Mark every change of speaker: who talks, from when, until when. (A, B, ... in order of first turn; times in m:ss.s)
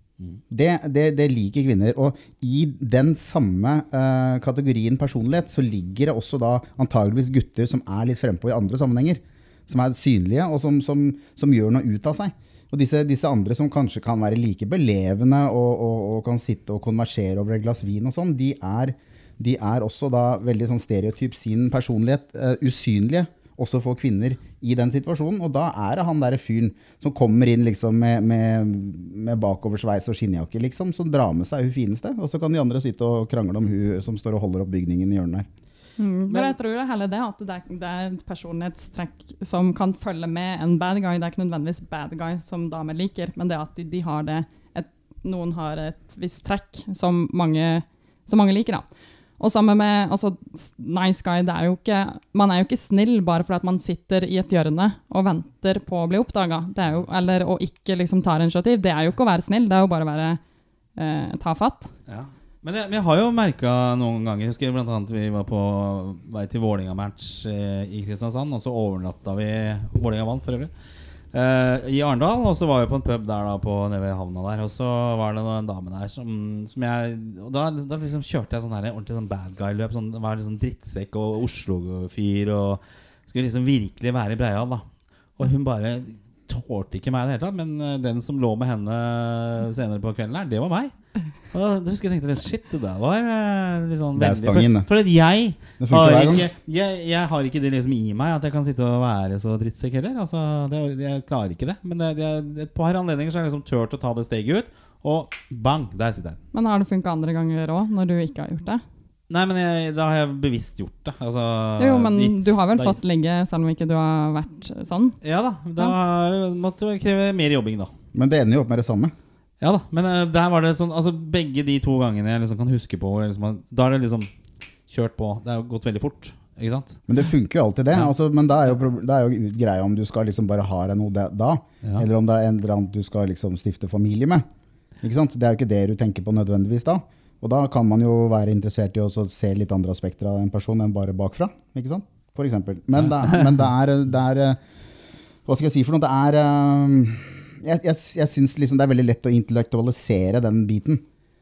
0:00.5-0:35.5 A
0:36.0-0:48.8 B
0:49.4-1:00.4 B
1:01.0-1:01.9 B
1:02.1-1:10.7 C
1:11.3-1:24.8 C
1:25.4-1:30.9 C
1:31.5-1:46.4 C
1:34.2-1:34.9 A
1:35.8-1:36.5 A
1:46.5-1:48.8 B
1:49.3-1:53.0 C
1:51.8-1:55.2 B
1:55.2-1:57.9 C
1:58.1-1:59.1 A
1:59.6-2:04.3 C
2:04.9-2:07.0 C
2:07.1-2:14.4 A
2:15.0-2:24.6 A
2:25.5-2:31.0 A